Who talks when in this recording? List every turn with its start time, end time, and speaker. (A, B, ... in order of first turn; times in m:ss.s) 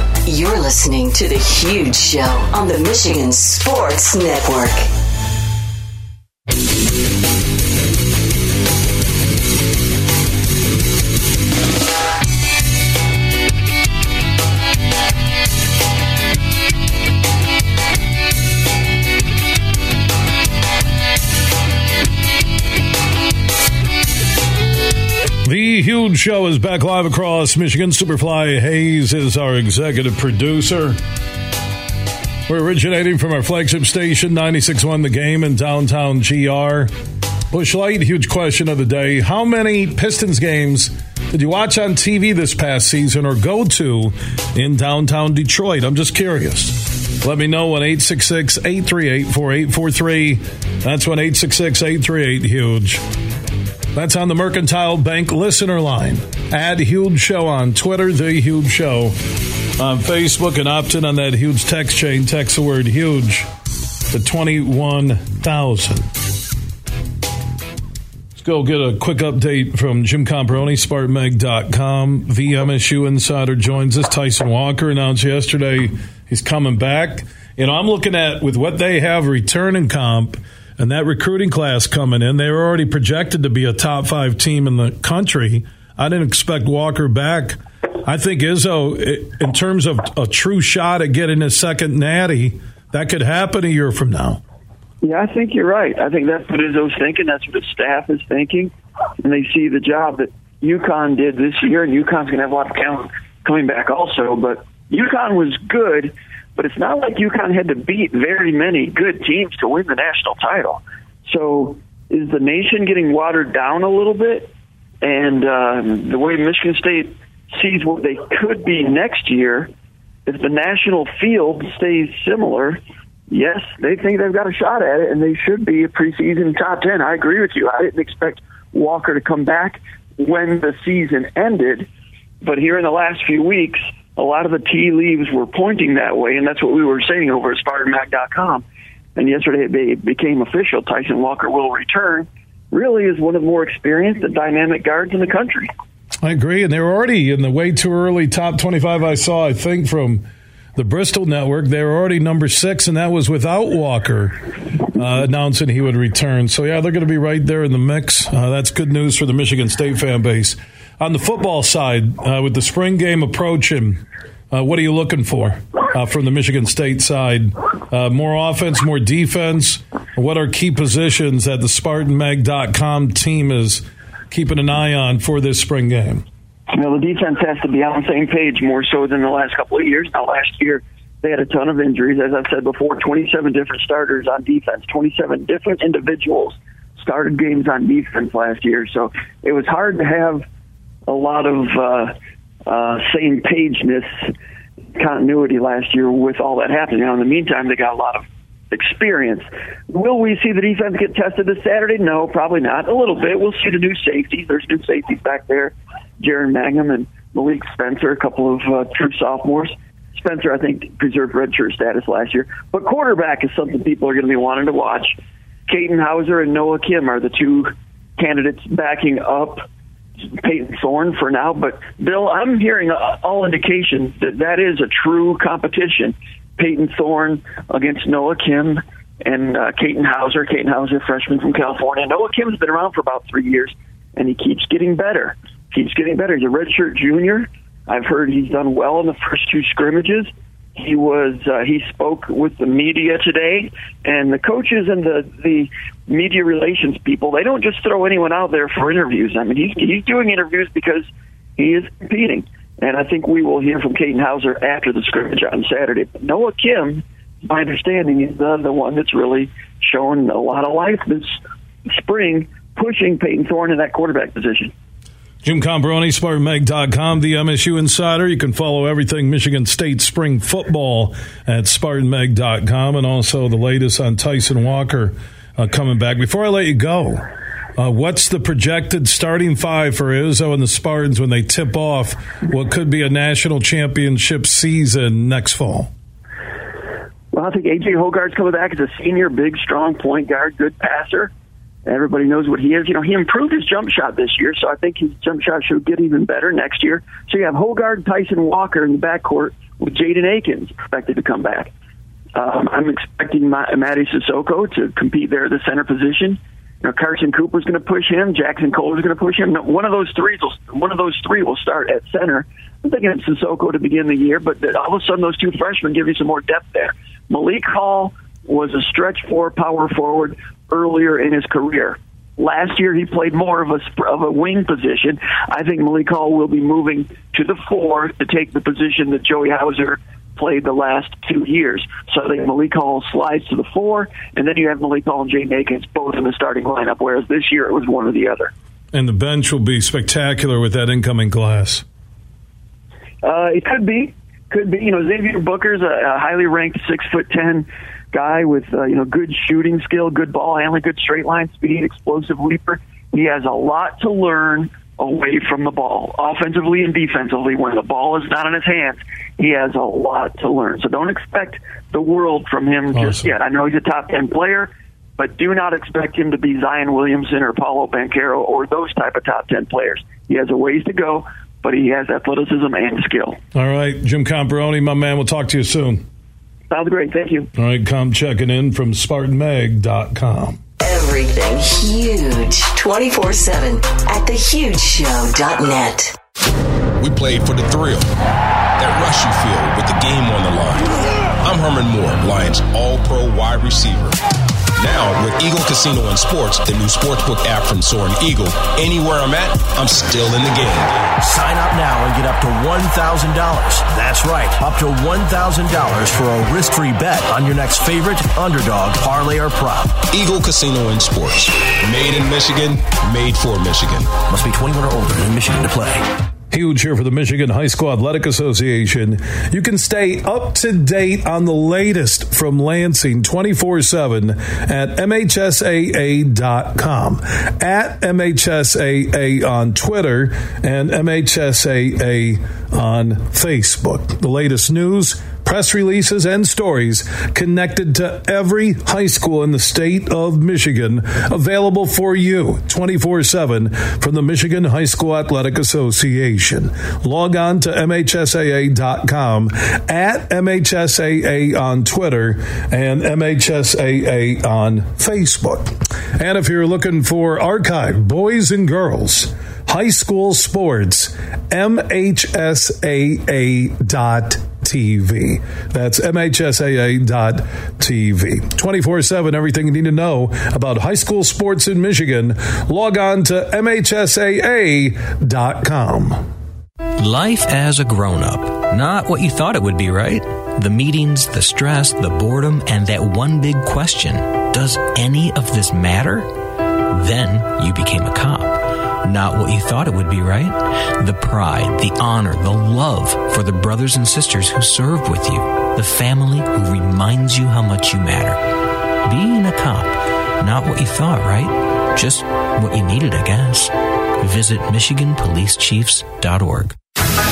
0:00.3-0:04.9 A
0:25.4-0:31.0 B
0:32.5-0:36.9 B
0:37.5-0:53.0 B
0:53.9-0:59.2 B
0:59.8-1:03.5 B
1:04.1-1:06.1 B
1:08.4-1:34.4 B
1:35.0-1:54.5 C
1:55.0-1:59.7 C
2:00.3-2:02.8 C
2:03.3-2:11.9 C
2:12.4-2:18.6 C
2:19.2-2:25.7 C
2:26.2-2:30.2 B
2:30.8-2:34.4 B
2:34.9-2:56.2 B
2:56.7-3:10.5 C
3:11.1-3:12.1 C
3:12.7-3:14.3 C
3:15.0-3:35.2 C
3:35.7-3:39.6 C
3:40.4-4:21.4 C
4:21.9-4:24.7 C
4:25.4-4:37.2 B
4:37.8-4:45.9 B
4:47.3-4:51.3 C
4:51.9-5:01.7 C
5:02.4-5:38.5 C
5:38.9-5:41.8 B
5:43.2-6:13.4 C
6:02.9-6:03.3 B
6:13.5-6:16.0 B
6:16.7-6:17.5 C
6:17.6-6:20.6 B
6:20.8-6:26.2 A
6:27.0-6:28.1 D
6:28.8-6:34.2 D
6:34.8-6:41.1 D
6:41.2-6:49.9 E
6:50.1-6:54.3 D
6:54.4-6:56.0 E
6:56.5-7:56.3 B
7:57.0-8:06.3 F
8:06.9-8:26.8 F